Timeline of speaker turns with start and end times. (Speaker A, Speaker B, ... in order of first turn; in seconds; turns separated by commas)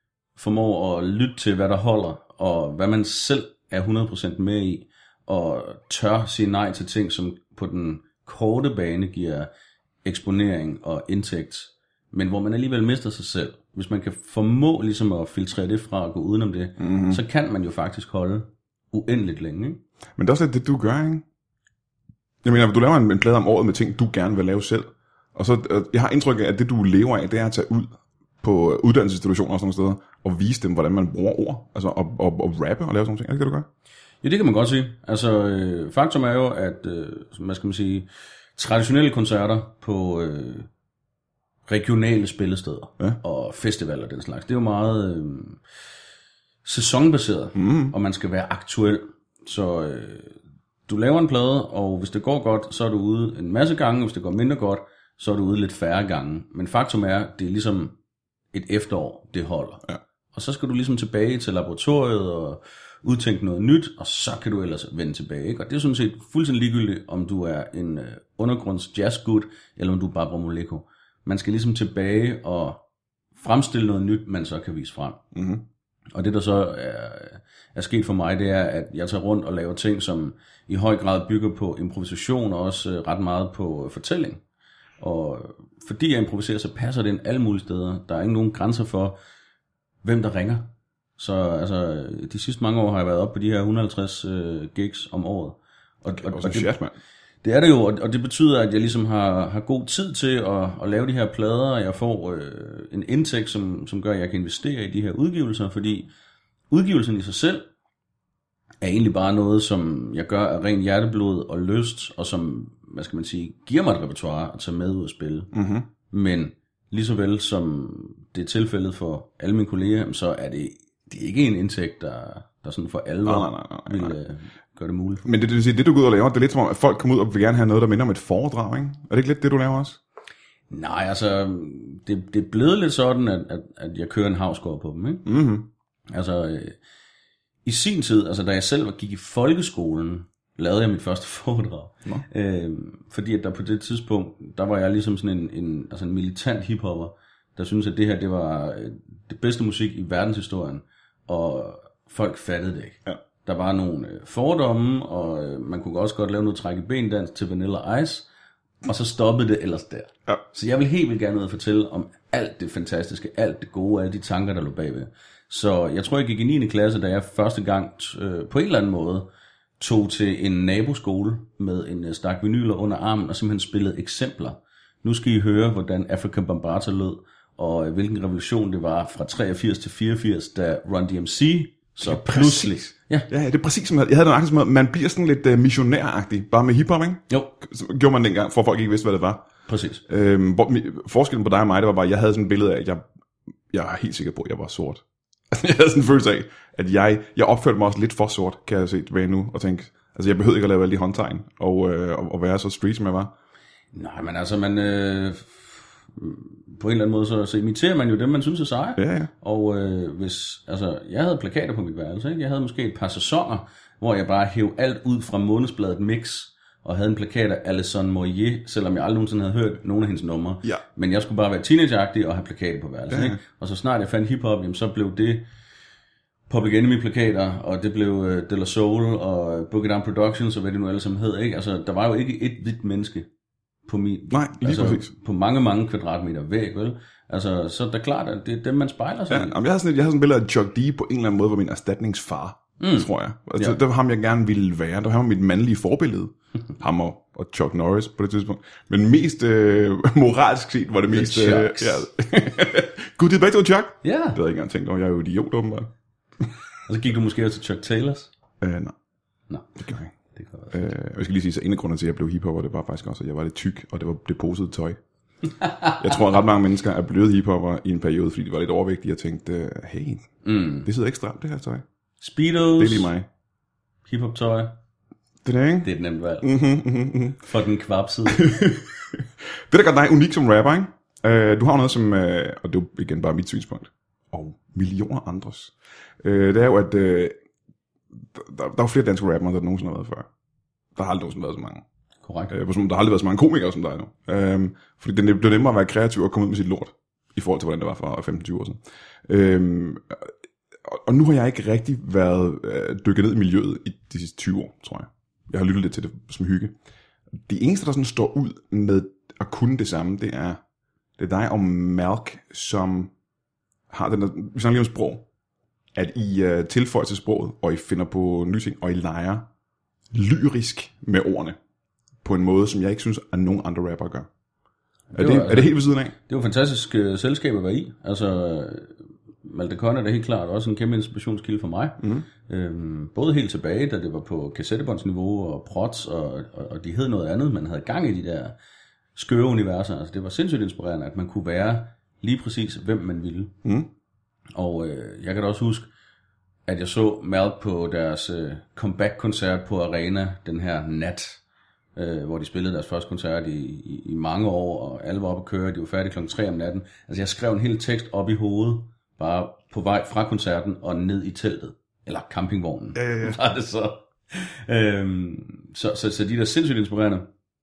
Speaker A: 0.4-9.5, Speaker A: 10.1-19.8, Speaker B: 16.8-17.2, Speaker B: 20.2-21.2, Speaker B: 22.4-33.7, Speaker A: 34.2-40.7, Speaker A: 41.7-45.6, Speaker A: 46.6-50.4, Speaker B: 47.5-48.0, Speaker A: 50.9-58.0, Speaker A: 58.5-72.8, Speaker A: 73.4-75.2, Speaker B: 75.3-75.6, Speaker A: 76.1-84.4, Speaker A: 85.0-89.2, Speaker A: 90.0-96.7, Speaker B: 96.1-97.0, Speaker A: 97.4-106.1, Speaker A: 106.7-107.7, Speaker A: 108.8-115.5, Speaker B: 115.5-115.9, Speaker A: 116.1-125.2, Speaker B: 123.2-124.2, Speaker B: 125.2-130.0, Speaker A: 130.7-135.3, Speaker B: 135.2-135.7, Speaker A: 136.1-136.8, Speaker A: 137.7-158.3, Speaker A: 158.8-169.3, Speaker A: 169.8-183.3, Speaker B: 182.0-189.5, Speaker A: 189.7-190.0, Speaker B: 190.1-193.0, Speaker B: 193.7-203.3, Speaker A: 203.9-225.5, Speaker B: 209.0-209.3, Speaker B: 223.1-223.4, Speaker A: 226.5-233.3, Speaker A: 233.9-239.6, Speaker B: 234.3-235.1, Speaker B: 239.3-255.9, Speaker A: 242.8-243.8, Speaker A: 251.1-252.1, Speaker A: 254.0-254.4, Speaker A: 256.9-258.3, Speaker B: 258.6-258.9, Speaker B: 259.8-260.1, Speaker A: 260.3-260.9, Speaker B: 260.7-265.0, Speaker B: 266.0-270.3, Speaker A: 270.4-270.9, Speaker B: 270.8-271.8, Speaker A: 272.2-273.1, Speaker B: 272.8-273.3, Speaker A: 274.1-274.8, Speaker B: 275.4-275.9, Speaker A: 275.8-276.5, Speaker B: 276.4-277.4, Speaker A: 277.4-278.6, Speaker B: 278.3-278.9, Speaker B: 279.7-287.4, Speaker B: 288.3-290.3, Speaker B: 291.0-291.8, Speaker A: 292.2-292.5, Speaker B: 292.5-300.3, Speaker B: 300.9-306.7, Speaker B: 307.5-310.6, Speaker B: 311.2-313.1, Speaker B: 313.9-315.2, Speaker B: 315.9-319.5, Speaker B: 320.1-321.6, Speaker B: 322.2-324.3, Speaker A: 325.1-338.6, Speaker B: 325.1-326.1, Speaker B: 332.0-332.3, Speaker A: 339.2-343.6, Speaker A: 344.6-345.9, Speaker A: 346.7-351.4, Speaker A: 352.0-367.3, Speaker B: 362.9-363.4